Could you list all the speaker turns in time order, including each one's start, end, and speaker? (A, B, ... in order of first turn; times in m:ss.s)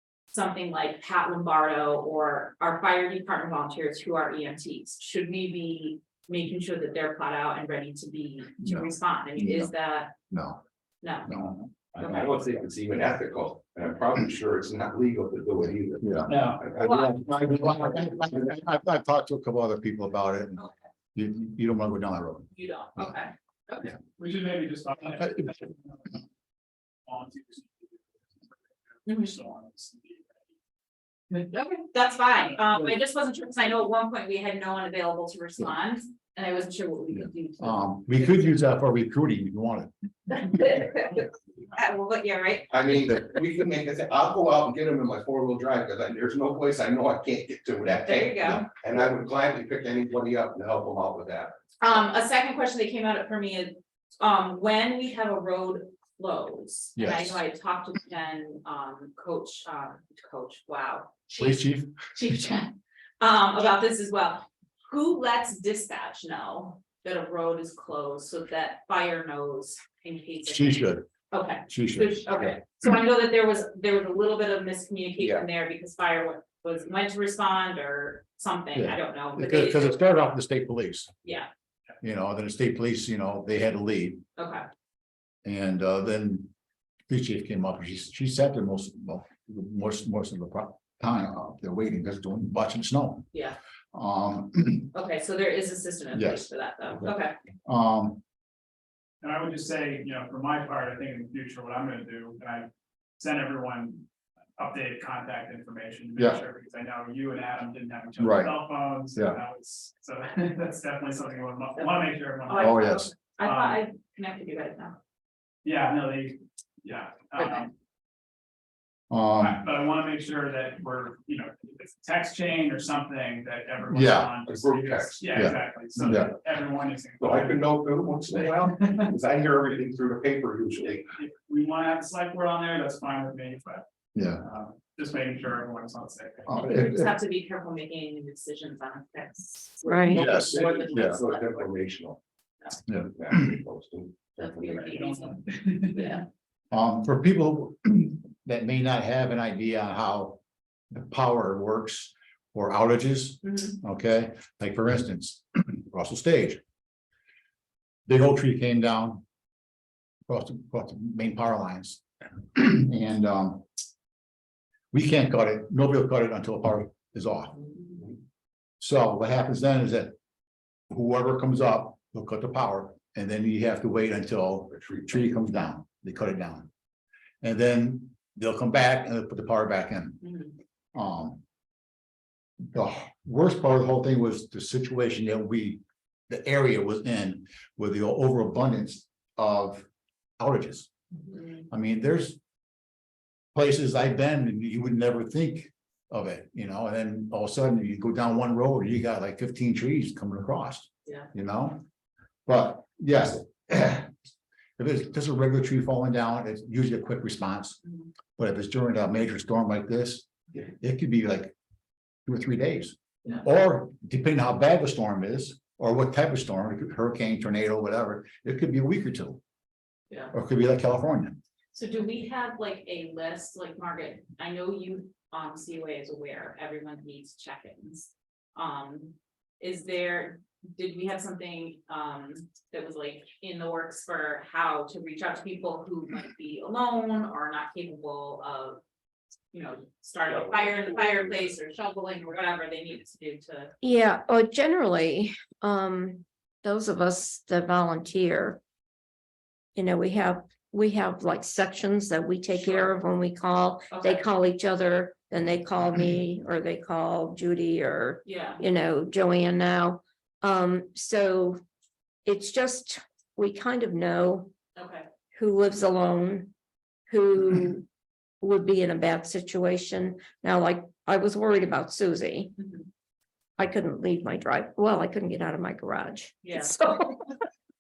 0:00.3-0:10.1 A
0:08.6-0:09.7 B
0:10.3-0:10.6 B
0:11.0-0:11.3 A
0:11.2-0:12.0 B
0:11.9-0:18.5 C
0:12.0-0:12.3 A
0:16.0-0:20.6 B
0:16.3-0:16.6 D
0:16.8-0:17.2 A
0:21.1-0:23.1 B
0:22.5-0:23.9 A
0:24.2-0:26.2 D
0:27.1-0:30.4 D
0:29.0-0:29.3 A
0:31.4-0:38.6 A
0:37.2-0:39.9 B
0:40.3-0:42.7 A
0:42.7-0:51.6 C
0:48.0-0:48.7 A
0:51.8-1:01.6 A
0:57.0-0:57.4 B
1:01.4-1:01.9 B
1:02.1-1:20.0 A
1:10.4-1:11.1 B
1:11.7-1:12.2 B
1:18.7-1:21.1 B
1:22.0-1:24.2 B
1:24.4-1:24.6 A
1:25.4-1:26.5 B
1:27.1-1:33.3 B
1:33.3-1:33.6 A
1:33.9-1:34.9 B
1:34.9-1:37.3 A
1:36.1-1:36.4 B
1:37.6-1:38.2 B
1:39.2-1:44.0 D
1:44.6-1:52.8 D
1:46.2-1:46.4 B
1:48.2-1:49.4 B
1:52.5-1:55.0 A
1:52.6-1:53.1 B
1:53.4-1:53.8 D
1:55.6-1:57.7 D
1:59.1-1:59.6 B
1:59.4-2:07.7 D
2:03.9-2:04.4 B
2:04.4-2:05.3 C
2:05.3-2:06.3 B
2:07.2-2:11.1 C
2:08.3-2:09.1 D
2:11.1-2:13.8 D
2:14.1-2:14.4 B
2:14.4-2:16.6 D
2:16.5-2:17.1 B
2:16.6-2:21.7 A
2:19.8-2:20.3 E
2:20.1-2:21.2 B
2:20.2-2:22.2 C
2:22.9-2:23.4 B
2:23.1-2:24.8 C
2:24.4-2:26.2 A
2:24.8-2:26.2 D
2:26.7-2:30.4 B
2:30.9-2:36.6 B
2:33.5-2:33.8 A
2:38.1-2:39.2 B
2:40.3-2:43.6 B
2:44.9-2:47.5 B
2:48.8-2:50.1 B
2:50.9-2:56.7 B
2:54.8-2:55.1 C
2:57.4-3:00.4 B
3:00.2-3:00.5 A
3:00.9-3:01.4 B
3:02.7-3:09.8 B
3:10.4-3:10.9 B
3:11.2-3:11.7 A
3:11.7-3:12.4 B
3:13.5-3:21.8 B
3:22.4-3:24.1 B
3:24.8-3:27.8 B
3:28.4-3:31.5 B
3:32.2-3:39.4 B
3:40.3-3:41.4 B
3:41.7-3:58.8 A
3:59.5-4:03.7 A
4:03.8-4:08.6 E
4:09.7-4:21.6 E
4:13.9-4:14.2 A
4:18.2-4:18.6 A
4:22.2-4:24.5 E
4:24.8-4:25.0 A
4:25.3-4:26.5 E
4:27.1-4:27.9 E
4:28.4-4:32.5 E
4:32.6-4:32.9 A
4:33.6-4:37.4 E
4:36.4-4:36.7 A